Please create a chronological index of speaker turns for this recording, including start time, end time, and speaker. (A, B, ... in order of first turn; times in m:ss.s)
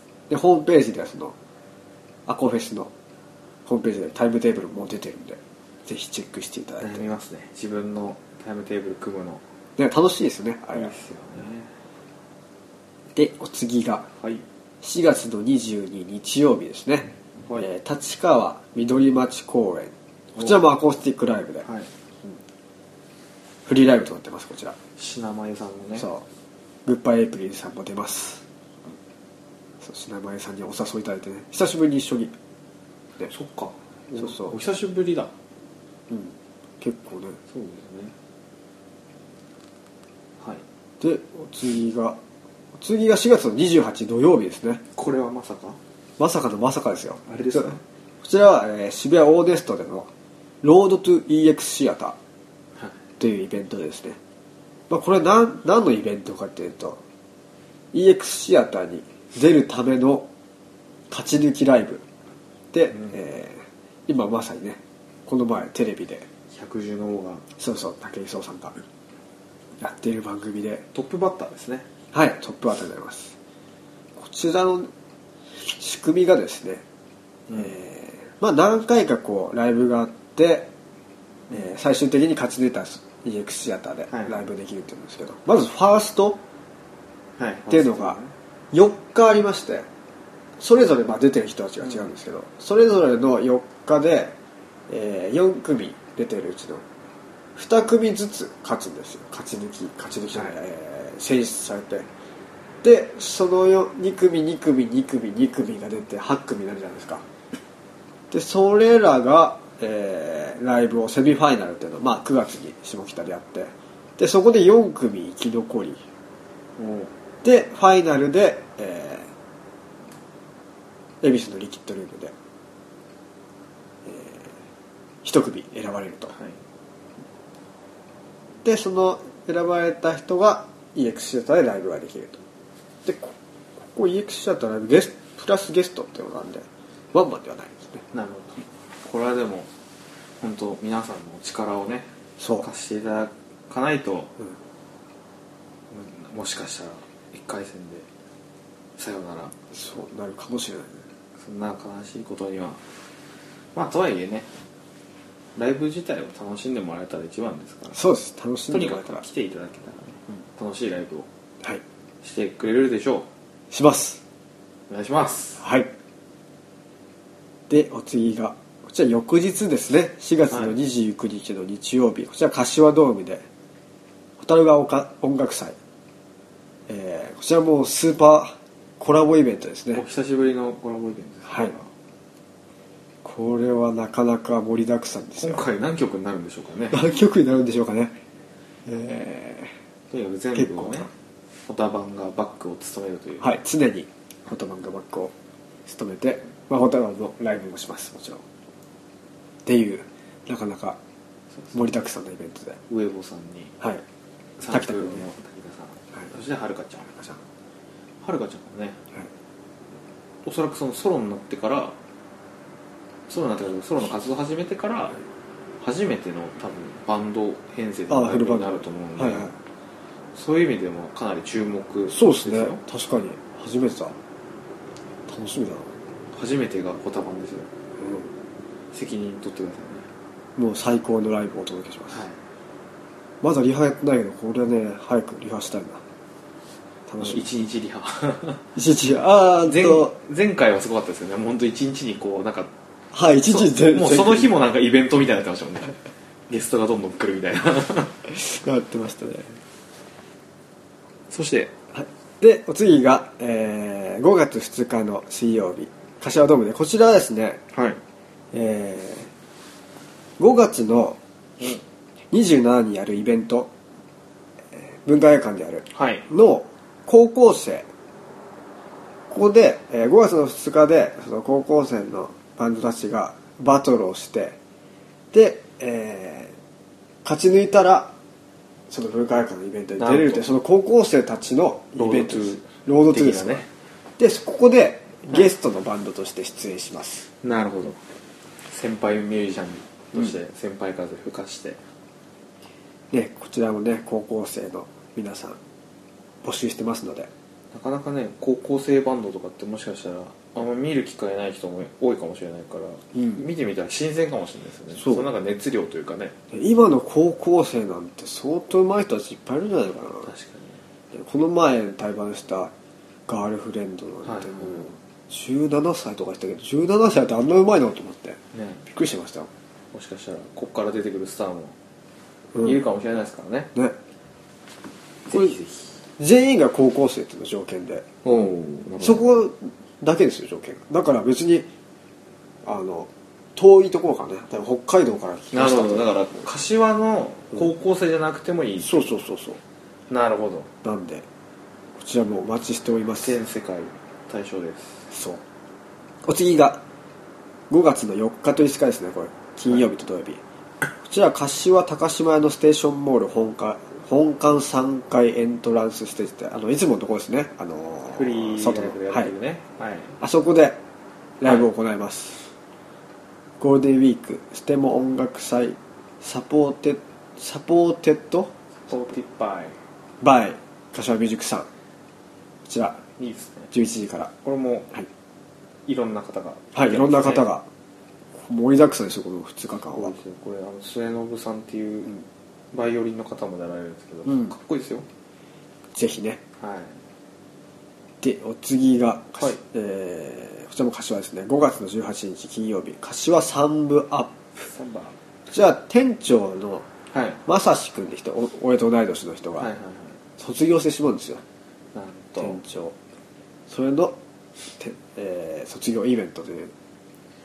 0:00.3-0:01.4 A
0:02.3-0:02.9 A
0:03.7-0:07.1 A
0:06.8-0:09.4 B
0:09.8-0:10.9 A
0:10.7-0:11.7 B
0:13.1-0:14.1 A
0:14.2-0:14.4 B
0:14.8-0:21.7 A
0:21.6-0:21.9 B
0:23.6-0:24.8 A
0:25.0-0:26.1 B
0:26.0-0:26.2 A
0:26.8-0:28.4 A
0:29.8-0:32.4 A
0:33.3-0:35.3 B
0:34.2-0:34.6 A
0:36.1-0:37.4 A
0:37.5-0:38.1 B
0:41.0-0:42.2 A
0:42.8-0:44.8 A
0:45.0-0:45.8 B
0:46.2-0:50.1 A
0:47.3-0:47.8 B
0:50.6-0:52.2 A
0:53.2-0:54.2 A
0:54.9-0:57.0 A
0:57.9-1:00.3 A
1:01.1-1:02.0 A
1:02.7-1:06.3 A
1:06.5-1:07.4 B
1:07.6-1:08.8 A
1:09.8-1:10.9 A
1:10.9-1:11.9 B
1:12.1-1:13.4 A
1:14.2-1:14.9 A
1:15.6-1:16.8 A
1:17.5-1:20.7 A
1:21.5-1:26.4 A
1:24.1-1:24.4 B
1:27.4-1:28.3 B
1:27.7-1:28.2 A
1:28.7-1:29.9 A
1:30.6-1:34.4 A
1:34.9-1:36.8 A
1:37.6-1:42.1 A
1:42.8-1:47.2 A
1:48.3-1:56.0 A
1:56.8-1:57.1 B
1:57.4-1:59.3 A
2:01.2-2:02.3 A
2:04.0-2:04.5 A
2:05.2-2:06.3 A
2:08.6-2:12.4 A
2:13.0-2:18.0 A
2:18.1-2:19.7 B
2:20.4-2:24.3 B
2:22.4-2:22.7 A
2:25.9-2:28.1 B
2:29.0-2:29.5 B
2:29.7-2:31.0 A
2:31.4-2:32.8 B
2:33.8-2:34.5 B
2:35.6-2:38.0 B
2:37.9-2:39.2 A
2:38.7-2:41.3 B
2:42.2-2:43.3 B
2:43.7-2:44.2 A
2:44.9-2:45.6 B
2:45.6-2:45.9 A
2:47.7-2:53.4 A
2:50.5-2:50.8 B
2:54.4-2:55.8 A
2:56.9-3:00.0 A
2:59.9-3:01.9 B
3:01.5-3:01.7 A
3:03.2-3:05.7 A
3:05.4-3:07.0 B
3:06.9-3:08.2 A
3:08.9-3:09.8 A
3:10.1-3:11.1 B
3:10.6-3:11.1 A
3:11.7-3:13.6 B
3:13.4-3:15.3 A
3:15.9-3:18.4 A
3:19.6-3:21.0 A
3:21.7-3:22.8 A
3:22.9-3:23.8 B
3:24.6-3:27.4 B
3:24.7-3:25.2 A
3:28.2-3:29.0 B
3:30.4-3:32.0 B
3:33.3-3:35.2 B
3:35.8-3:39.5 B
3:38.1-3:39.6 A
3:40.3-3:42.8 B
3:42.1-3:44.2 A
3:45.3-3:45.9 A
3:46.3-3:47.7 B
3:48.0-3:48.3 A
3:48.9-3:50.1 B
3:50.6-3:52.2 A
3:52.1-3:52.4 B
3:53.4-3:56.0 A
3:57.1-3:57.4 A
3:57.2-3:58.6 B
3:58.8-4:00.1 A
3:59.6-4:02.7 B
4:03.1-4:04.5 A
4:03.5-4:06.0 B
4:06.5-4:08.2 B
4:08.3-4:09.6 A
4:11.3-4:11.7 B
4:11.9-4:17.6 A
4:17.7-4:18.0 B
4:18.5-4:19.3 A
4:20.4-4:21.2 A
4:22.3-4:23.7 A
4:24.7-4:27.9 A
4:25.9-4:26.2 B
4:29.3-4:34.6 A
4:35.3-4:36.6 A
4:37.2-4:38.1 A
4:38.9-4:43.6 A
4:40.0-4:40.4 B
4:42.0-4:43.7 B
4:44.2-4:47.3 A
4:47.4-4:48.0 B
4:48.7-4:51.8 B
4:53.1-4:55.6 A
4:56.4-4:57.3 A
4:57.7-5:06.4 B
5:03.2-5:03.4 A
5:05.0-5:05.3 A
5:06.5-5:10.3 A
5:10.2-5:10.8 B
5:11.1-5:12.7 A
5:13.3-5:19.5 A
5:14.2-5:14.9 B
5:18.5-5:18.8 B
5:19.9-5:21.8 B
5:22.6-5:23.7 B
5:25.3-5:26.0 B
5:26.2-5:28.1 A
5:28.2-5:29.2 B
5:29.0-5:31.7 A
5:32.6-5:36.1 A
5:35.5-5:39.1 B
5:38.8-5:39.6 A
5:40.1-5:40.7 B
5:40.8-5:41.3 A
5:42.0-5:43.4 A
5:43.2-5:45.0 B
5:45.1-5:45.4 A
5:46.2-5:46.8 A
5:47.7-5:50.4 A
5:51.0-5:59.3 A
5:58.1-6:00.2 B
6:00.2-6:00.8 A
6:01.4-6:02.5 A
6:03.6-6:08.5 A
6:08.9-6:09.8 B
6:10.2-6:11.7 A
6:12.7-6:13.0 A
6:13.2-6:13.7 B
6:13.7-6:14.3 A
6:14.4-6:14.9 B
6:15.9-6:17.5 B
6:16.8-6:17.7 A
6:18.4-6:20.2 A
6:19.9-6:22.1 B
6:22.7-6:25.1 B
6:24.3-6:24.5 A
6:25.9-6:26.4 A
6:26.6-6:27.0 B
6:28.2-6:34.3 A
6:34.6-6:35.2 B
6:35.5-6:36.8 A
6:37.1-6:37.4 B
6:37.5-6:39.7 A
6:39.6-6:40.2 B
6:40.4-6:41.4 A
6:41.9-6:42.6 B
6:42.4-6:43.0 A
6:43.7-6:44.2 A
6:44.8-6:46.7 A